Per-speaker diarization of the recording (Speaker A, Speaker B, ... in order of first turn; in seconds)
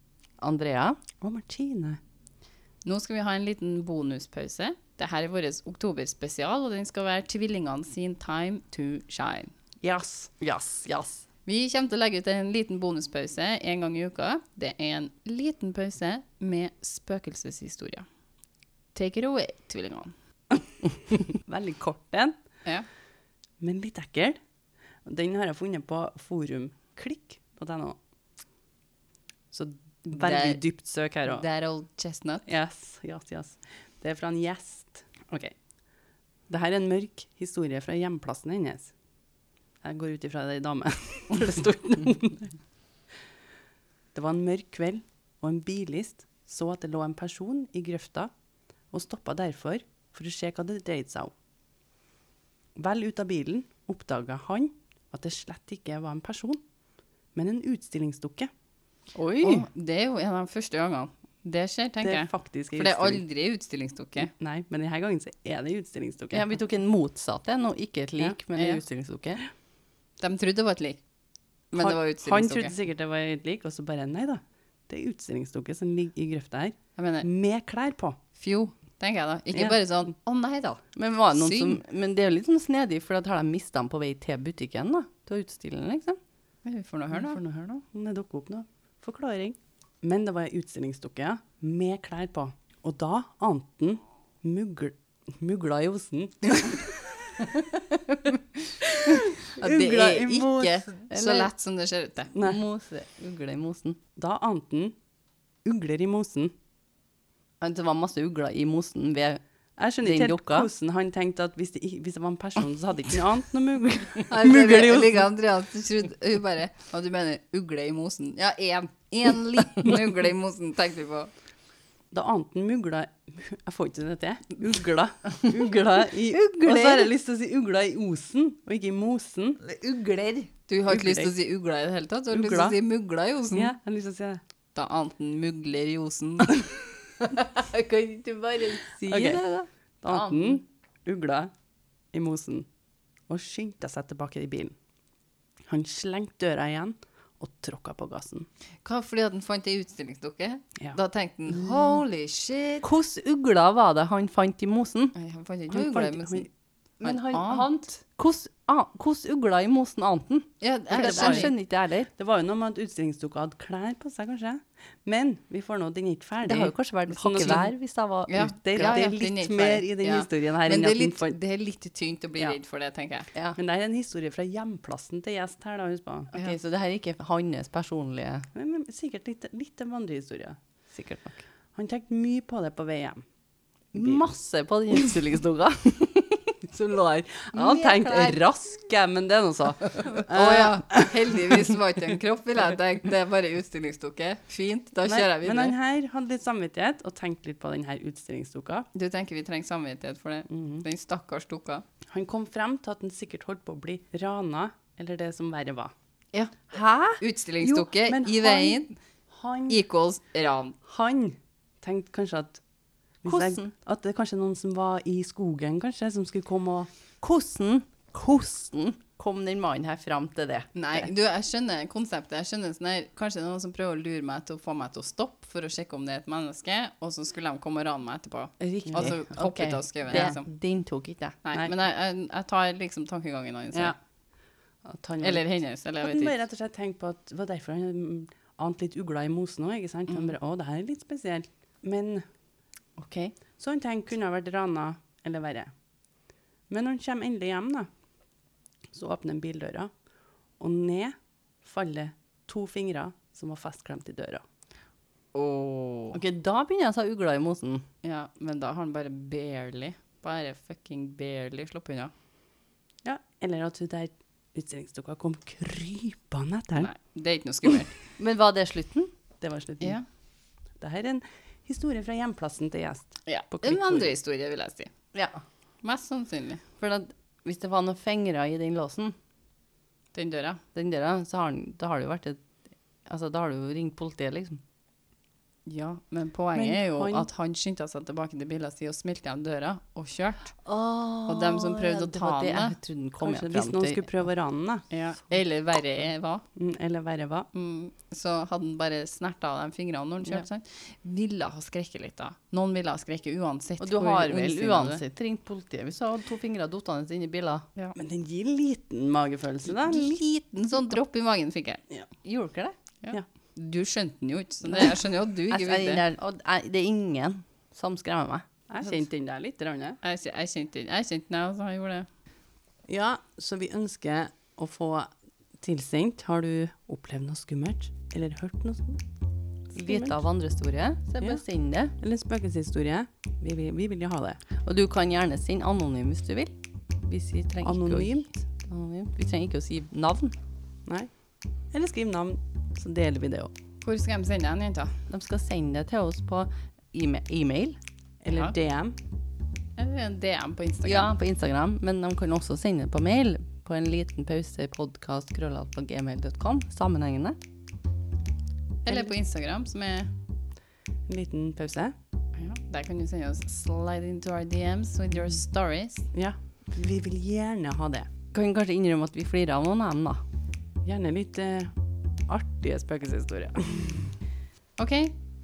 Speaker A: 0.4-1.0, 10.2-11.2, 59.1-59.7, 66.3-69.4, 81.0-86.2, 99.6-101.5, 102.3-104.0, 107.6-109.4, 110.0-110.7, 126.2-127.1, 129.6-130.5, 137.5-140.6, 152.8-155.2, 157.0-162.1, 166.4-168.3, 176.3-178.5, 180.9-181.4, 183.9-188.4, 189.9-190.2, 213.2-213.7, 217.2-221.1, 228.9-231.3, 256.1-257.9, 268.2-269.1, 275.1-275.4, 276.8-279.1, 280.7-282.4, 283.1-284.6, 290.6-294.3, 303.8-307.6, 312.1-312.7, 315.5-318.5, 329.8-331.9, 334.6-340.3, 345.1-347.8, 350.8-357.4, 368.3-370.2
Speaker B: 1.2-2.0, 9.8-10.3, 21.1-22.4, 23.6-24.4, 25.1-28.0, 29.5-31.4, 32.5-35.5, 36.5-38.9, 39.8-42.5, 44.1-48.3, 48.9-51.3, 52.8-56.6, 57.4-58.5, 62.0-63.2, 64.2-66.5, 71.8-78.2, 79.5-79.8, 87.1-97.3, 99.1-100.7, 102.3-102.6, 104.2-104.9, 105.7-106.5, 109.8-115.3, 122.1-129.6, 130.9-131.3, 132.3-132.8, 133.5-134.4, 139.1-139.4, 140.0-141.5, 142.1-142.7, 143.3-144.7, 145.7-148.5, 155.7-156.5, 160.9-161.5, 162.2-167.8, 168.3-171.4, 173.6-176.3, 178.5-180.6, 181.8-183.2, 183.9-184.2, 187.0-191.6, 195.1-198.9, 200.5-200.9, 202.1-205.9, 206.7-209.8, 210.9-212.6, 213.2-216.9, 228.6-229.3, 230.1-230.4, 234.8-235.4, 236.0-242.2, 243.6-245.7, 246.7-247.9, 248.9-249.9, 250.6-254.4, 263.1-266.9, 269.4-270.0, 270.8-274.1, 286.6-287.3, 293.2-294.9, 296.6-297.5, 307.9-310.1, 318.7-320.0, 322.9-325.1, 325.6-329.0, 329.7-330.2, 332.0-334.4, 337.6-338.4, 341.7-343.5, 348.2-349.0, 361.1-361.9, 366.1-368.1, 370.8-371.7, 372.3-374.1
Speaker C: 2.8-9.5, 11.5-18.1, 18.9-20.1, 30.1-30.6, 31.3-32.5, 59.4-64.3, 68.6-68.8, 70.2-71.0, 71.7-72.7, 77.0-77.3, 78.4-81.8, 86.6-87.4, 99.4-102.3, 114.3-121.3, 130.6-133.7, 134.8-136.8, 148.8-152.9, 155.2-156.5, 157.0-157.7, 160.6-161.5, 168.3-173.3, 187.5-188.3, 190.0-195.8, 198.9-201.8, 206.3-209.0, 209.7-210.8, 220.8-230.5, 231.4-234.0, 235.2-236.4, 243.0-243.3, 255.3-256.2, 258.0-262.1, 266.8-268.0, 273.3-274.9, 275.8-276.6, 280.1-280.6, 285.7-290.6, 291.3-292.8, 294.9-296.4, 297.5-305.0, 309.8-311.8, 313.0-316.1, 320.0-322.1, 343.8-344.9, 349.8-351.2, 358.8-360.1, 362.4-366.1, 374.8-375.2